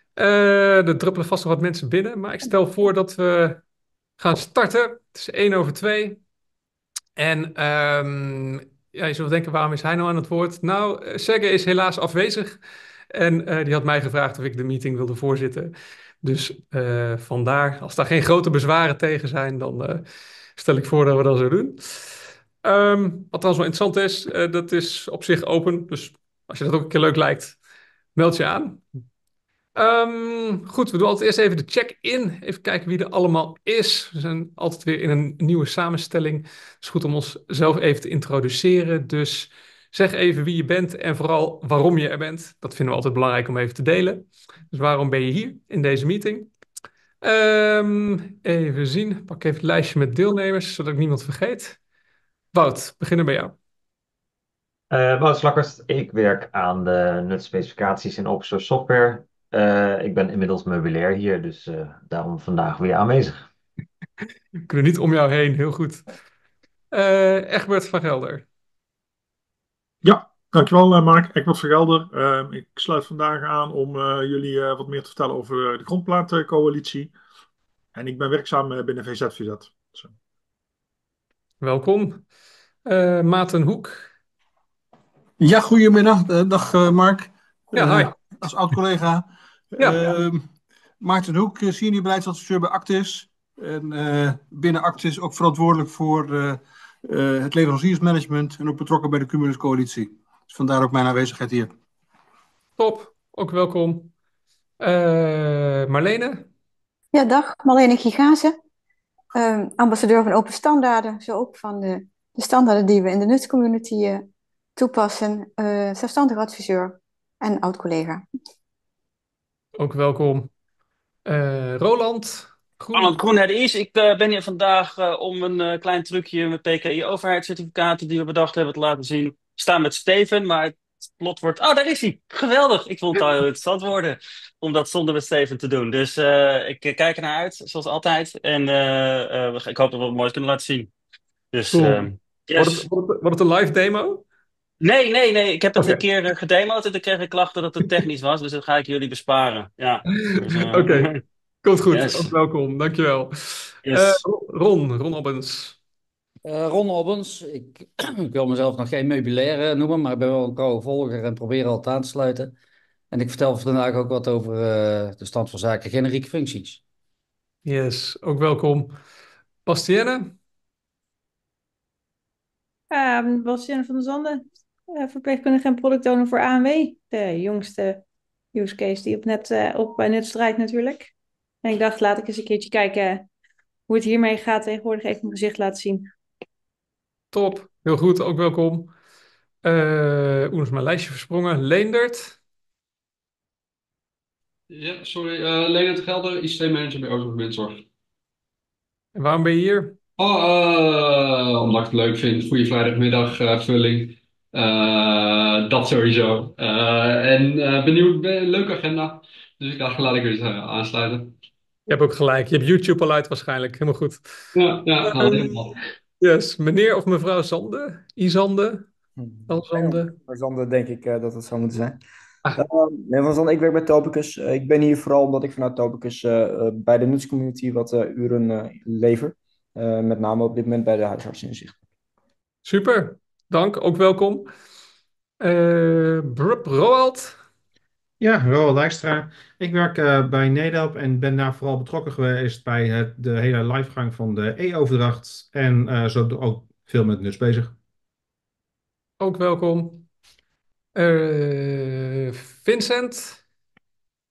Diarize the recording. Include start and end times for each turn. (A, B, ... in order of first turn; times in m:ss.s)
0:00.2-0:03.6 A
0:04.2-0:06.2 A
0:07.2-0:12.6 A
0:13.1-0:20.0 A
0:20.6-0:27.6 A
0:28.2-0:28.8 A
0:29.8-0:46.5 A
0:47.2-0:51.8 A
0:52.5-0:53.6 A
0:54.9-1:03.5 B
1:04.7-1:06.0 A
1:06.9-1:08.4 A
1:10.0-1:17.1 C
1:18.0-1:20.1 C
1:21.6-1:22.2 A
1:22.8-1:24.1 A
1:25.4-1:30.5 D
1:27.7-1:28.2 A
1:31.0-1:41.7 D
1:42.8-1:44.1 A
1:44.8-1:46.5 A
1:47.1-1:48.6 E
1:49.3-1:54.2 E
1:54.8-1:58.2 E
1:59.8-2:00.5 A
2:01.3-2:03.2 A
2:02.9-2:20.9 F
2:21.5-2:22.9 F
2:21.7-2:24.2 A
2:24.8-2:31.2 F
2:30.1-2:31.1 A
2:31.6-2:35.8 A
2:31.9-2:32.3 F
2:33.8-2:34.2 F
2:36.4-2:42.5 G
2:43.1-2:46.8 G
2:47.6-2:49.0 A
2:49.7-2:50.4 A
2:52.9-2:58.0 H
2:58.5-3:01.1 H
3:01.6-3:03.3 H
3:03.9-3:06.1 H
3:07.3-3:08.9 A
3:09.6-3:12.4 A
3:14.7-3:17.8 I
3:19.2-3:20.0 A
3:20.2-3:31.3 I
3:31.9-3:34.2 A
3:34.5-3:35.8 I
3:35.0-3:35.6 A
3:36.2-3:38.9 A
3:39.2-3:42.0 J
3:39.5-3:40.1 A
3:42.6-3:51.8 J
3:52.6-3:54.5 A
3:55.4-3:57.4 A
3:58.2-4:07.7 K
4:09.2-4:10.1 A
4:11.0-4:13.4 A